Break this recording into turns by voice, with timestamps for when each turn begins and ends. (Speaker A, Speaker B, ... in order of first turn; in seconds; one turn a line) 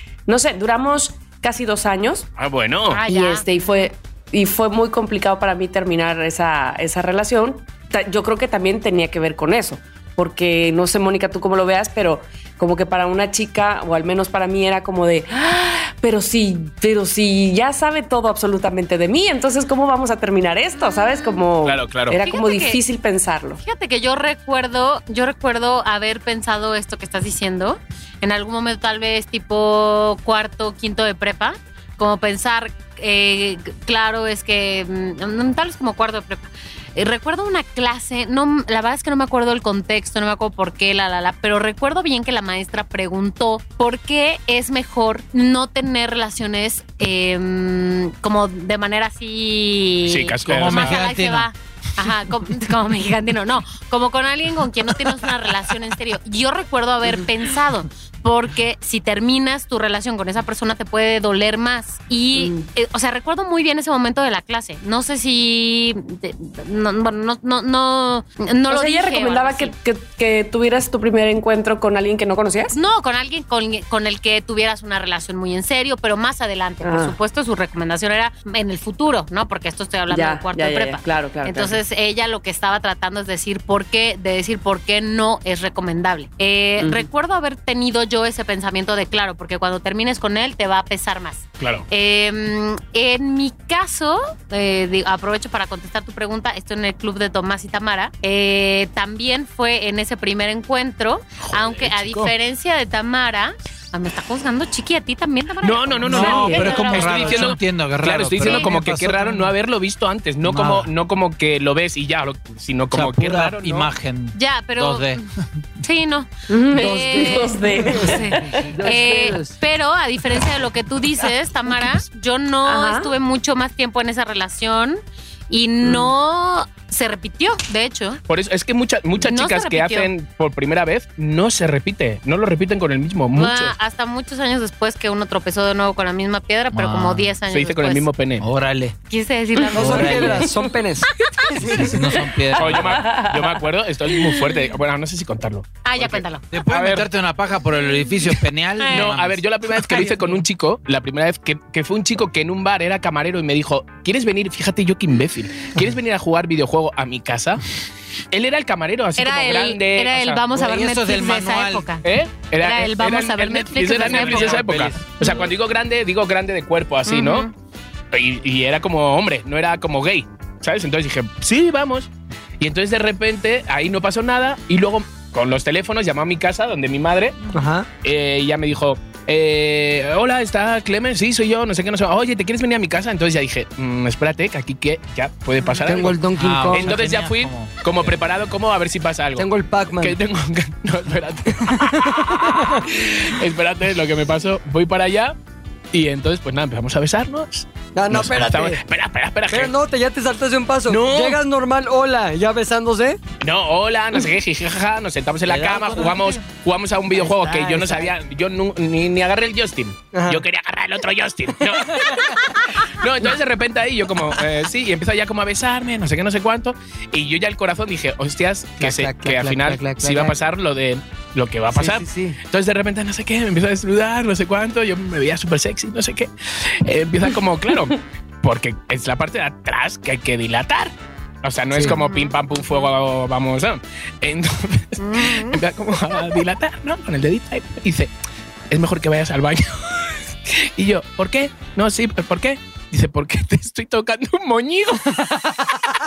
Speaker A: 0.2-2.3
Speaker B: 2.4-3.0
Speaker C: 2.9-3.4
Speaker A: 3.0-23.6
Speaker C: 20.8-21.4
Speaker B: 21.6-22.2
Speaker C: 22.2-22.8
Speaker C: 23.6-69.7
Speaker B: 50.0-51.0
Speaker D: 50.5-51.5
Speaker A: 62.3-62.7
Speaker A: 68.7-72.8
Speaker C: 72.7-107.5
Speaker A: 76.8-77.2
Speaker A: 80.1-81.8
Speaker A: 86.8-87.1
Speaker B: 91.6-91.9
Speaker B: 101.4-102.3
Speaker B: 105.6-113.9
Speaker D: 106.1-109.5
Speaker C: 108.4-108.7
Speaker D: 110.4-110.9
Speaker D: 112.9-115.4
Speaker C: 114.3-115.2
Speaker C: 115.8-128.2
Speaker A: 116.5-118.7
Speaker E: 116.7-119.5
Speaker A: 122.6-123.1
Speaker A: 125.8-126.1
Speaker B: 128.2-133.7
Speaker C: 129.2-130.1
Speaker C: 133.3-138.1
Speaker D: 136.7-137.3
Speaker B: 137.5-138.4
Speaker D: 138.4-138.9
Speaker C: 139.1-140.6
Speaker E: 139.7-142.0
Speaker D: 139.7-140.5
Speaker C: 141.2-141.5
Speaker D: 141.6-143.0
Speaker A: 142.5-143.6
Speaker B: 142.6-147.1
Speaker C: 145.8-146.4
Speaker D: 146.5-149.4
Speaker C: 148.8-149.2
Speaker B: 148.9-157.6
Speaker C: 149.9-150.2
Speaker B: 158.3-160.4
Speaker C: 159.2-162.0
Speaker D: 160.5-161.9
Speaker B: 162.0-167.5
Speaker C: 162.6-164.7
Speaker D: 164.0-165.5
Speaker C: 167.1-167.5
Speaker B: 168.1-172.1
Speaker B: 172.6-177.4
Speaker E: 177.5-177.9
Speaker B: 178.0-189.5
Speaker E: 185.8-187.0
Speaker D: 186.3-188.1
Speaker E: 189.4-190.2
Speaker B: 190.0-195.4
Speaker E: 191.7-193.0
Speaker B: 195.9-199.7
Speaker E: 197.9-198.8
Speaker E: 199.5-203.2
Speaker B: 200.9-201.4
Speaker B: 203.4-230.9
Speaker D: 205.4-206.4
Speaker E: 207.1-208.1
Speaker E: 210.1-210.4
Speaker E: 218.8-220.4
Speaker E: 221.7-222.4
Speaker B: 231.4-238.1
Speaker C: 231.9-232.8
Speaker C: 235.0-235.6
Speaker B: 238.7-245.2